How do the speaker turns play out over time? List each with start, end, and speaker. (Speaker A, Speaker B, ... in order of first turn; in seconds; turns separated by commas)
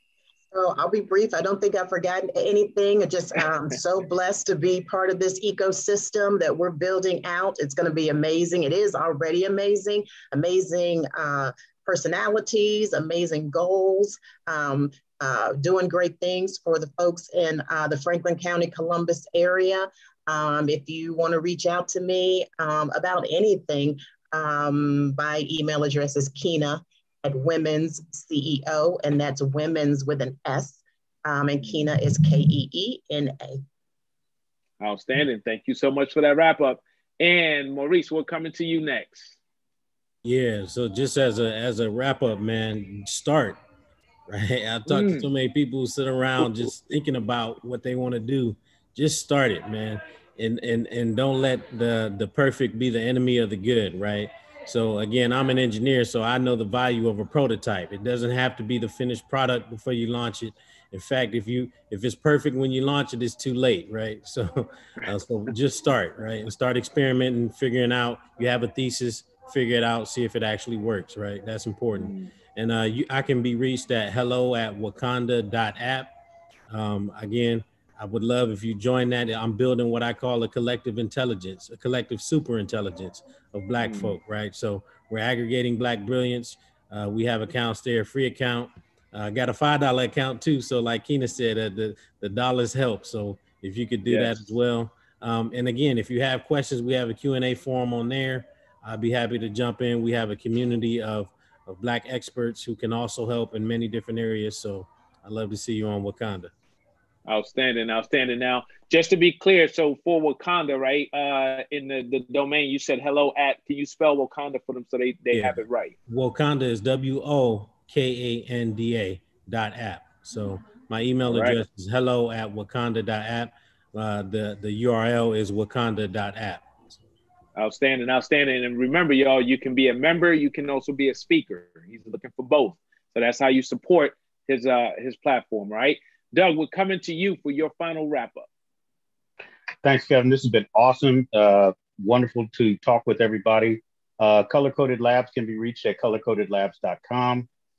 Speaker A: 0.5-33.6, Speaker B: 34.8-39.4, Speaker C: 40.2-43.6, Speaker C: 44.3-76.1, Speaker B: 44.9-45.3, Speaker B: 72.0-72.3, Speaker C: 76.7-106.5, Speaker B: 83.8-84.2, Speaker B: 94.1-94.4, Speaker B: 107.3-116.0, Speaker C: 115.3-127.0, Speaker B: 121.3-121.6, Speaker B: 127.6-138.5, Speaker D: 139.8-147.5